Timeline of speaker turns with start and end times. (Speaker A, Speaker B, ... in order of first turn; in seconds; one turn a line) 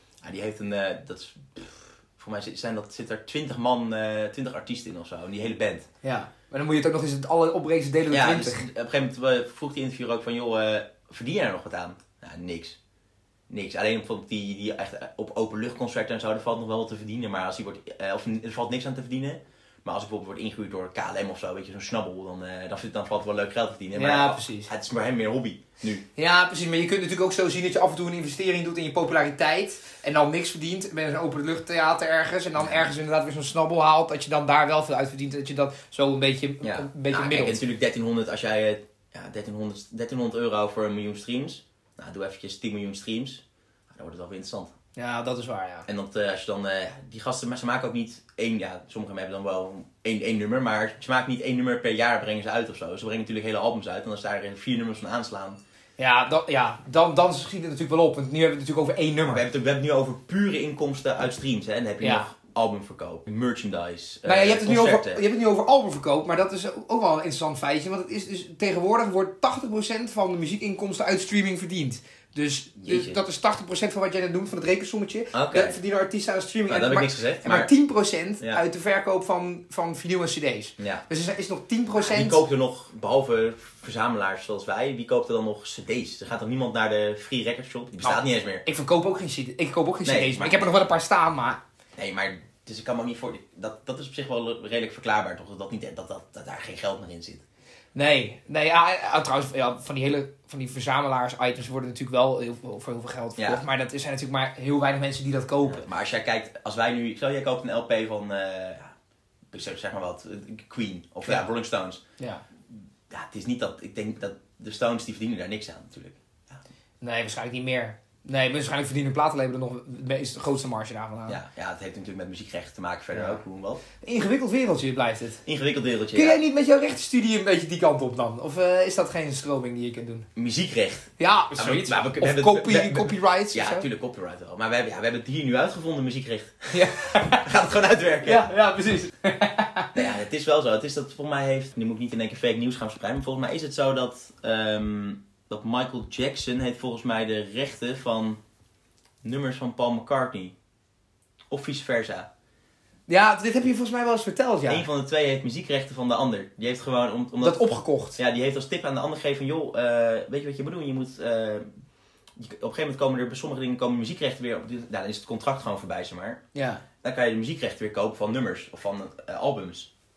Speaker A: 0.2-5.9
Speaker B: 6.0-8.7
Speaker A: 8.1-12.8
Speaker A: 13.5-26.0
Speaker B: 23.9-24.7
Speaker B: 26.2-37.6
Speaker A: 32.6-32.9
Speaker A: 36.6-44.7
Speaker B: 45.0-45.9
Speaker A: 45.9-55.6
Speaker B: 56.0-59.4
Speaker A: 59.3-65.2
Speaker B: 62.0-62.3
Speaker B: 64.2-82.4
Speaker A: 72.8-73.2
Speaker A: 75.3-75.8
Speaker A: 76.7-77.7
Speaker A: 82.0-88.6
Speaker B: 88.0-91.6
Speaker A: 90.0-90.7
Speaker A: 92.0-97.4
Speaker B: 98.0-105.8
Speaker A: 103.4-103.6
Speaker A: 105.6-108.9
Speaker A: 109.5-112.0
Speaker A: 113.1-116.6
Speaker B: 117.0-121.4
Speaker A: 121.3-123.8
Speaker B: 123.1-123.4
Speaker B: 124.0-125.4
Speaker A: 125.5-126.4
Speaker B: 126.1-130.3
Speaker A: 130.4-138.5
Speaker B: 131.2-133.9
Speaker B: 136.7-137.5
Speaker B: 138.2-140.0
Speaker A: 139.9-148.4
Speaker A: 149.2-150.6
Speaker A: 151.5-152.3
Speaker B: 153.1-154.8
Speaker A: 154.7-161.7
Speaker B: 157.4-158.2
Speaker A: 162.4-166.4
Speaker B: 166.6-166.8
Speaker A: 167.0-169.9